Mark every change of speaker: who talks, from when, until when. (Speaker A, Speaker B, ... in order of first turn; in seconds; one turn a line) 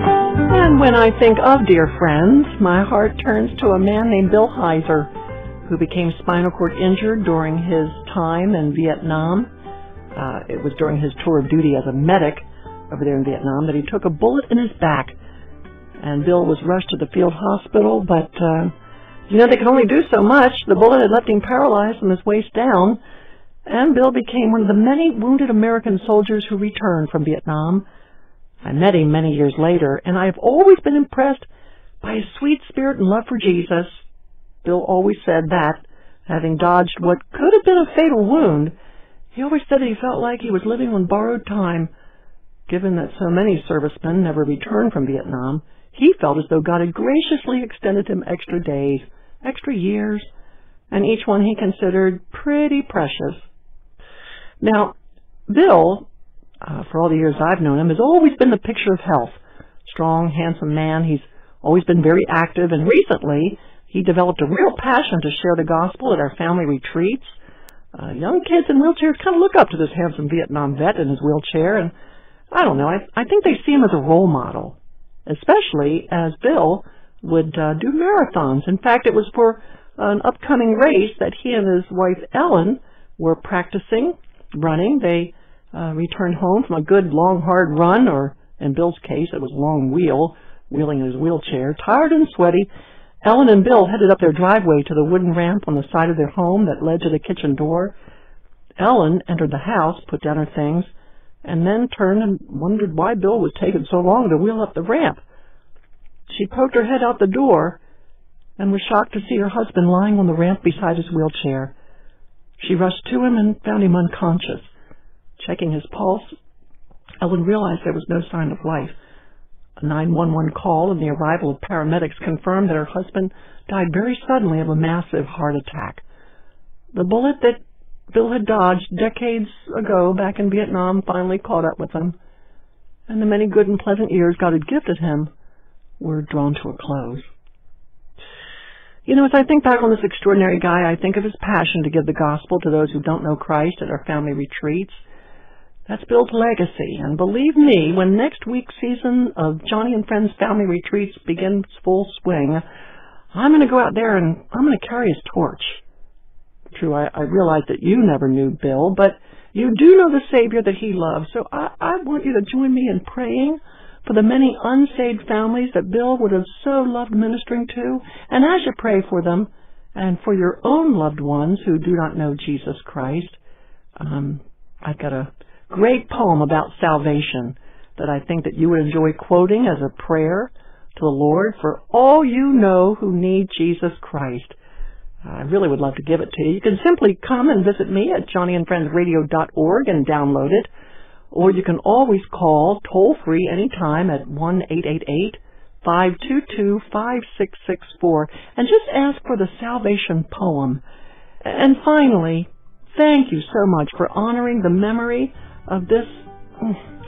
Speaker A: 0.5-5.1
Speaker A: 5.6-9.5
Speaker A: 10.1-15.1
Speaker A: 16.0-18.7
Speaker A: 19.3-23.0
Speaker A: 23.6-27.8
Speaker A: 28.6-31.5
Speaker A: 32.0-34.0
Speaker A: 34.6-38.7
Speaker A: 39.3-41.9
Speaker A: 42.7-50.3
Speaker A: 50.9-53.4
Speaker A: 54.6-54.9
Speaker A: 55.5-56.1
Speaker A: 56.6-67.3
Speaker A: 67.9-71.9
Speaker A: 72.5-92.7
Speaker A: 93.2-97.9
Speaker A: 98.8-100.9
Speaker A: 101.4-105.2
Speaker A: 106.3-107.8
Speaker A: 108.6-111.7
Speaker A: 112.6-114.7
Speaker A: 115.4-116.3
Speaker A: 117.2-118.9
Speaker A: 119.8-126.0
Speaker A: 126.9-132.2
Speaker A: 133.1-135.3
Speaker A: 136.0-137.3
Speaker A: 139.1-145.0
Speaker A: 145.9-152.6
Speaker A: 153.3-155.8
Speaker A: 156.7-173.4
Speaker A: 174.0-184.6
Speaker A: 185.2-190.7
Speaker A: 191.3-200.8
Speaker A: 201.4-206.8